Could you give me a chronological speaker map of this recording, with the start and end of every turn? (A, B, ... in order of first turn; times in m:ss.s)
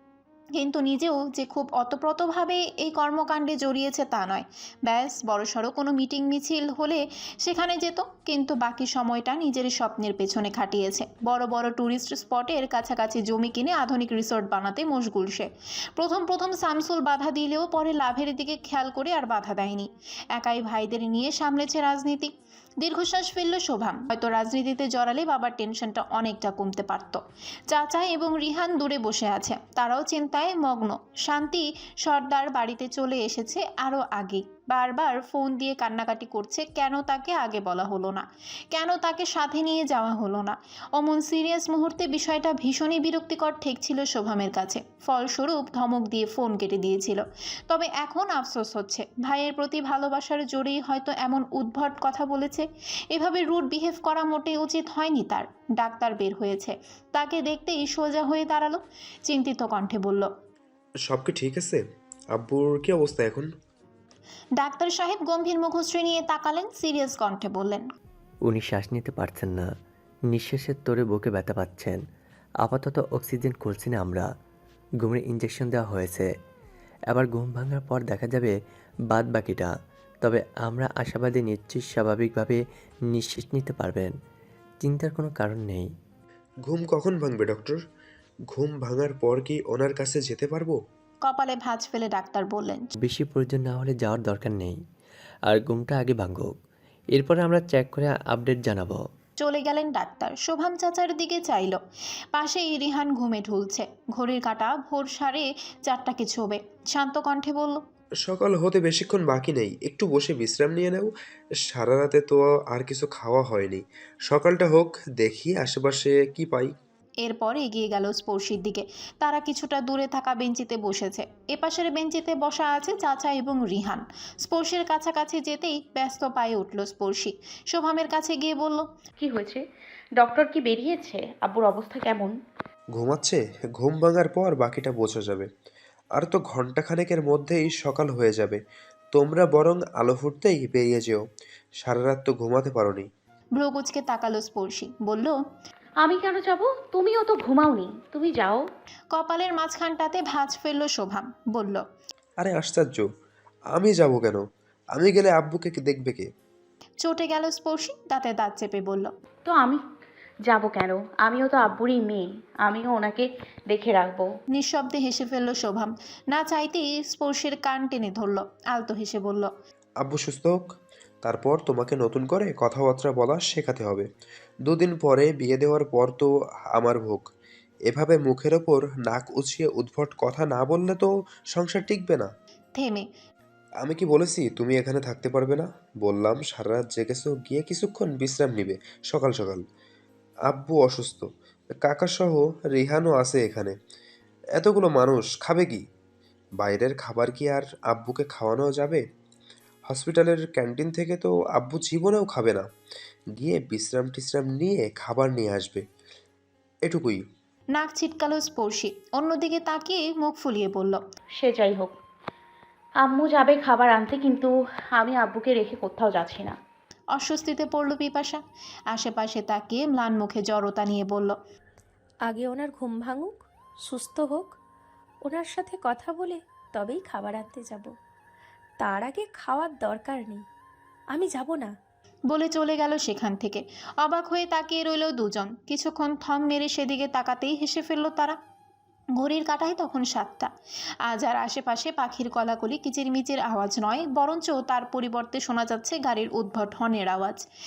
0:00.6-1:00.3 A
1:01.0-1:01.8 B
1:02.3-1:03.5 B
1:04.6-1:07.8 A
1:08.5-1:09.7 C
1:10.3-1:12.0 C
1:12.6-1:14.2 C
1:15.0-1:16.2 C
1:17.1-1:18.5 C
1:19.1-1:19.7 C
1:20.2-1:22.6 C
1:23.1-1:24.1 C
1:24.8-1:25.9 C
1:26.7-1:27.8 B
1:28.5-1:30.8 B
1:31.2-1:32.9 A
1:33.0-1:34.8 C
1:35.5-1:36.5 C
1:37.1-1:39.0 C
1:39.4-1:41.8 A
1:42.3-1:47.8 A
1:48.2-1:51.1 B
1:51.6-1:56.7 B
1:57.2-2:08.9 A
2:09.2-2:09.6 D
2:10.2-2:12.4 D
2:13.0-2:15.5 B
2:16.2-2:18.6 B
2:19.1-2:21.2 B
2:21.8-2:23.1 B
2:23.6-2:25.4 A
2:26.0-2:28.6 D
2:29.1-2:31.8 A
2:32.4-2:33.1 B
2:33.7-2:34.4 B
2:34.9-2:36.3 B
2:37.0-2:39.1 A
2:39.5-2:39.8 D
2:40.5-2:44.3 D
2:44.5-2:49.5 A
2:50.0-2:50.6 B
2:51.2-2:54.1 B
2:54.7-2:57.3 B
2:57.9-3:02.3 B
3:02.8-3:03.1 A
3:03.8-3:09.6 B
3:10.5-3:11.3 B
3:11.8-3:13.7 B
3:14.6-3:15.8 B
3:16.6-3:19.0 B
3:19.9-3:22.6 B
3:23.4-3:25.8 B
3:26.9-3:27.2 B
3:27.8-3:31.0 A
3:31.4-3:31.9 D
3:33.0-3:36.6 D
3:37.2-3:38.4 A
3:38.9-3:41.4 A
3:42.3-3:44.6 E
3:45.2-3:47.9 E
3:48.8-3:50.4 E
3:51.1-3:51.7 E
3:52.3-3:58.4 A
3:59.2-4:00.5 A
4:01.1-4:07.4 A